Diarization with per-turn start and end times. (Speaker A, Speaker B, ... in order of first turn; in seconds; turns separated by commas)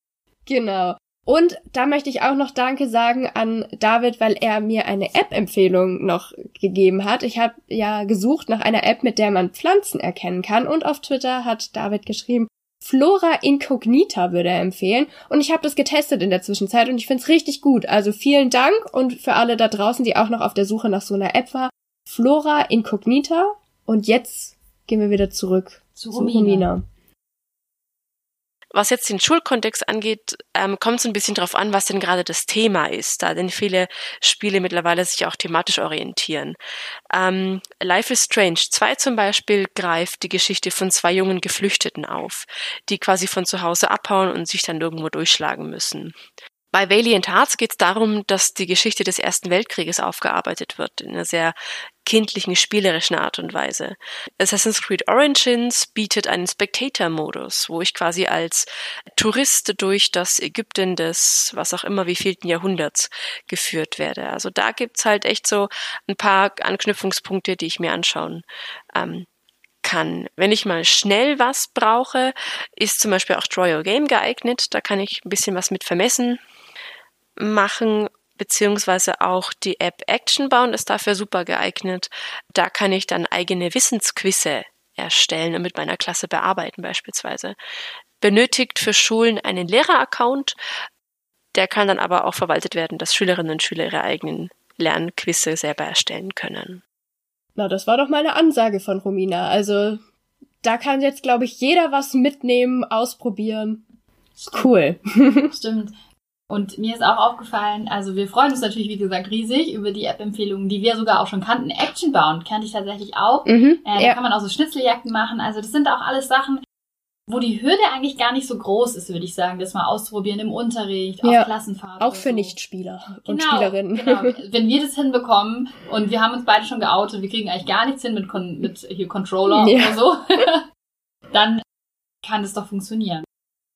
Speaker A: 0.5-26.8, Speaker B: 25.9-26.7, Speaker C: 28.7-36.5, Speaker C: 37.1-46.1, Speaker C: 46.7-69.3, Speaker C: 69.8-76.4, Speaker C: 77.4-87.5, Speaker C: 88.2-90.5, Speaker C: 91.5-96.8, Speaker A: 97.5-100.0, Speaker A: 100.6-103.8, Speaker B: 104.4-104.7, Speaker A: 104.5-105.5, Speaker B: 105.5-105.9, Speaker B: 106.5-116.6, Speaker A: 113.5-114.2, Speaker B: 117.3-122.5, Speaker A: 121.2-121.5, Speaker A: 122.0-124.3, Speaker B: 123.3-130.6, Speaker A: 129.5-130.0, Speaker B: 131.3-131.6, Speaker B: 132.2-133.2